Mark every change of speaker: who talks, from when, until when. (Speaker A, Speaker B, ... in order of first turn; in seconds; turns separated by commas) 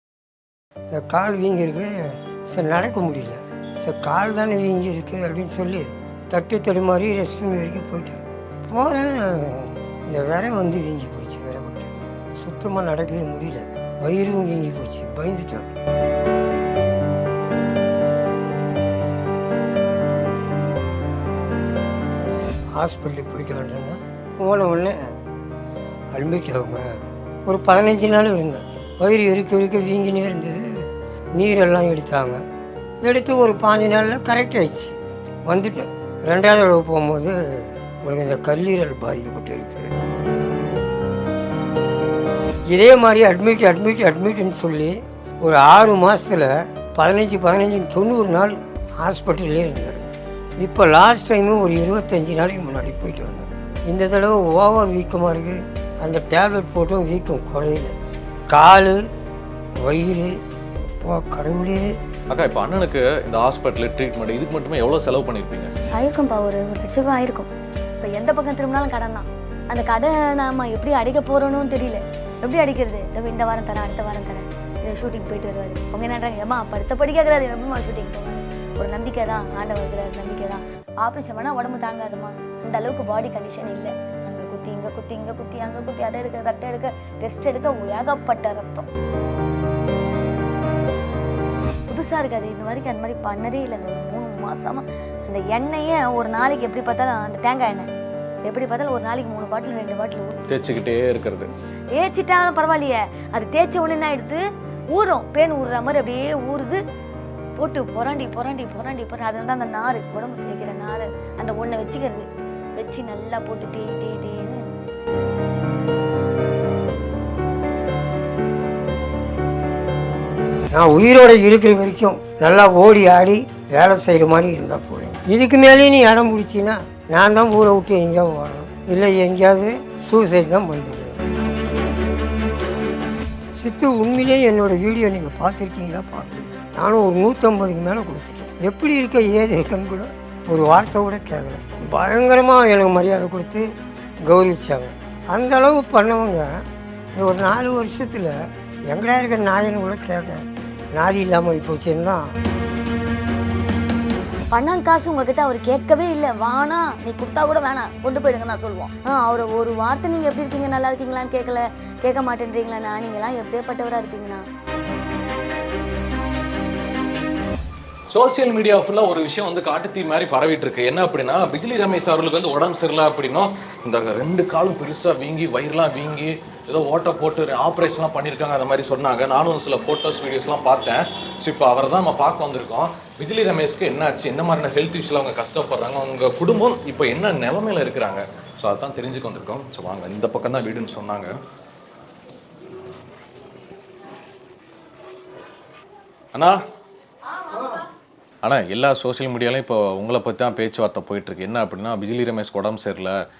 Speaker A: 0.9-1.9, Speaker A: 2.5-15.7, Speaker A: 22.8-25.0, Speaker A: 26.1-30.6, Speaker A: 31.4-32.4, Speaker A: 33.0-39.9, Speaker A: 42.7-59.0, Speaker A: 59.8-60.3, Speaker A: 61.0-61.9, Speaker B: 62.3-65.7, Speaker C: 66.0-88.9, Speaker C: 91.9-97.9, Speaker C: 98.4-100.5, Speaker B: 100.5-101.5, Speaker C: 101.9-104.4, Speaker C: 104.9-106.8, Speaker C: 107.5-114.6, Speaker A: 120.7-131.2, Speaker A: 133.5-143.7, Speaker A: 144.2-146.6, Speaker A: 147.2-148.3, Speaker A: 148.9-150.4, Speaker A: 150.9-152.3, Speaker C: 154.5-164.4, Speaker B: 168.1-191.3, Speaker B: 198.4-203.1